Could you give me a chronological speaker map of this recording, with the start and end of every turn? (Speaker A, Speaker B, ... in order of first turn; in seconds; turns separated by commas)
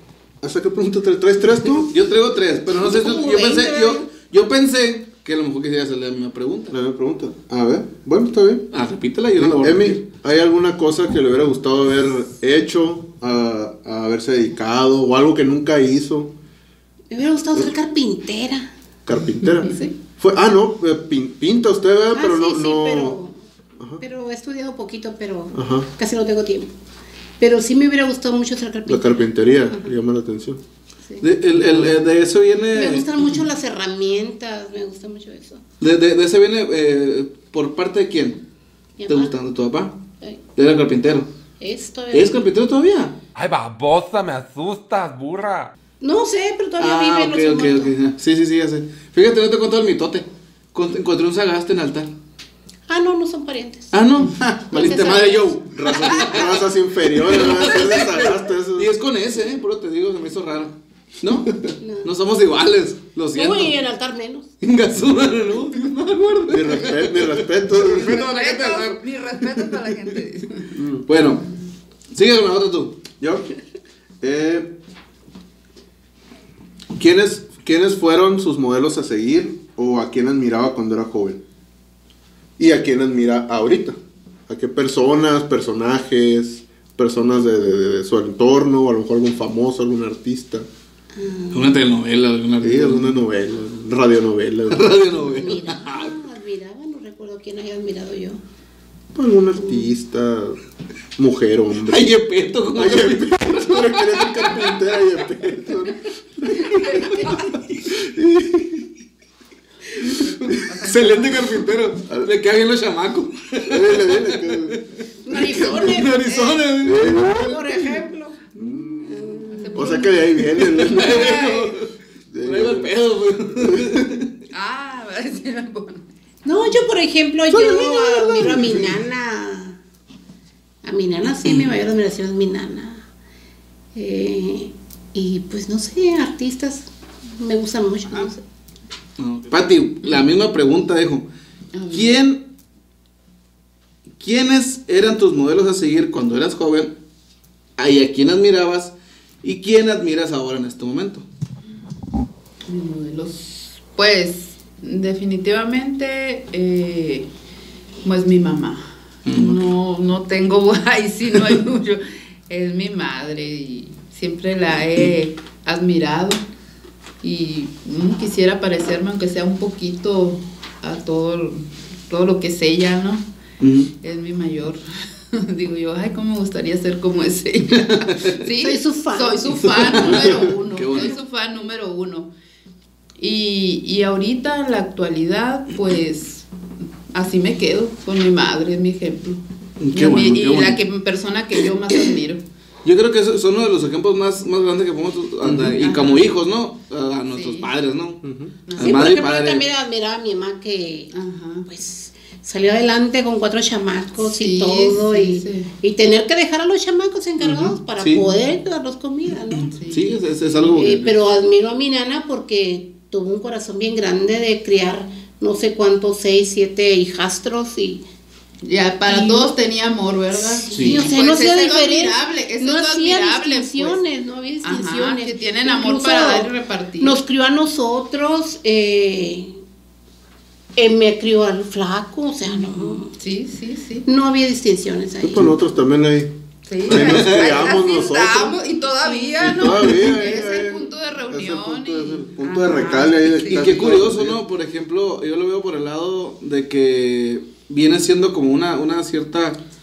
Speaker A: 0.4-1.9, Speaker B: 1.9-6.7, Speaker C: 2.8-4.0, Speaker A: 6.7-8.7, Speaker B: 8.7-10.0, Speaker A: 9.4-16.3, Speaker C: 17.1-18.7, Speaker A: 19.0-23.2, Speaker C: 22.1-23.4, Speaker C: 24.0-26.7, Speaker A: 25.5-25.9, Speaker C: 27.4-29.9, Speaker A: 28.9-30.6, Speaker B: 31.2-33.4, Speaker C: 32.7-35.6, Speaker B: 35.8-38.4, Speaker C: 39.0-39.3, Speaker B: 39.1-39.9, Speaker B: 40.5-41.3, Speaker C: 41.6-42.4, Speaker B: 42.1-43.1, Speaker D: 43.3-45.7, Speaker C: 46.0-47.9, Speaker B: 46.8-52.1, Speaker C: 52.9-53.9, Speaker B: 53.9-56.2, Speaker C: 54.7-55.6, Speaker A: 55.7-58.9, Speaker C: 56.1-56.5, Speaker B: 57.3-63.7, Speaker C: 61.8-62.1, Speaker C: 63.3-64.5, Speaker B: 64.6-70.1, Speaker A: 66.5-68.2, Speaker E: 68.0-70.7, Speaker A: 70.7-71.1, Speaker B: 71.1-71.5, Speaker B: 72.1-73.0, Speaker A: 73.2-73.5, Speaker A: 74.2-74.7, Speaker A: 76.9-81.4, Speaker A: 82.6-90.7, Speaker C: 91.1-91.8, Speaker B: 91.5-93.2, Speaker A: 92.6-94.9, Speaker B: 94.7-96.1, Speaker C: 95.4-98.4, Speaker A: 99.1-100.6, Speaker A: 101.2-102.1, Speaker B: 101.8-104.6, Speaker A: 102.7-108.9, Speaker E: 110.2-111.5, Speaker B: 110.8-114.8, Speaker A: 113.7-114.8, Speaker C: 115.2-120.0, Speaker B: 115.4-117.6, Speaker A: 115.5-115.8, Speaker A: 116.8-117.4, Speaker A: 118.6-121.7, Speaker E: 119.5-120.2, Speaker B: 120.6-121.9, Speaker E: 121.0-121.4, Speaker A: 122.3-122.9, Speaker B: 122.4-124.3, Speaker A: 123.5-124.1, Speaker E: 124.5-126.0, Speaker C: 126.4-129.8, Speaker A: 127.5-129.0, Speaker C: 130.8-133.0, Speaker B: 131.4-131.7, Speaker C: 133.9-138.4, Speaker B: 139.2-141.3, Speaker E: 141.7-142.2, Speaker B: 141.9-142.4, Speaker B: 144.2-146.9, Speaker B: 147.8-151.2, Speaker E: 152.7-157.3, Speaker E: 158.0-166.4, Speaker B: 159.2-159.6, Speaker E: 167.2-173.2, Speaker B: 173.6-173.9, Speaker E: 174.0-174.8, Speaker E: 175.3-182.3, Speaker B: 177.8-178.3, Speaker C: 178.6-180.4, Speaker B: 179.9-181.2, Speaker E: 183.2-186.5, Speaker E: 187.1-192.4, Speaker B: 189.8-190.8, Speaker B: 192.8-198.2, Speaker E: 195.8-196.3, Speaker E: 197.3-197.7, Speaker A: 198.2-198.6, Speaker E: 198.7-199.1, Speaker B: 198.8-199.6, Speaker C: 198.8-201.1, Speaker E: 201.1-201.7, Speaker C: 201.7-209.7, Speaker E: 204.2-205.7, Speaker B: 207.4-208.3, Speaker B: 209.5-211.2, Speaker E: 209.7-210.2, Speaker C: 210.7-218.0, Speaker E: 218.6-224.0, Speaker C: 219.1-219.5, Speaker C: 220.6-229.6, Speaker B: 220.7-221.0, Speaker E: 224.6-227.2, Speaker C: 230.8-233.1, Speaker E: 232.4-234.1, Speaker C: 234.1-235.5, Speaker A: 235.2-236.3, Speaker E: 236.7-243.7, Speaker A: 236.8-238.6, Speaker B: 236.9-237.7, Speaker C: 239.0-239.6, Speaker A: 239.4-244.4, Speaker B: 243.5-249.6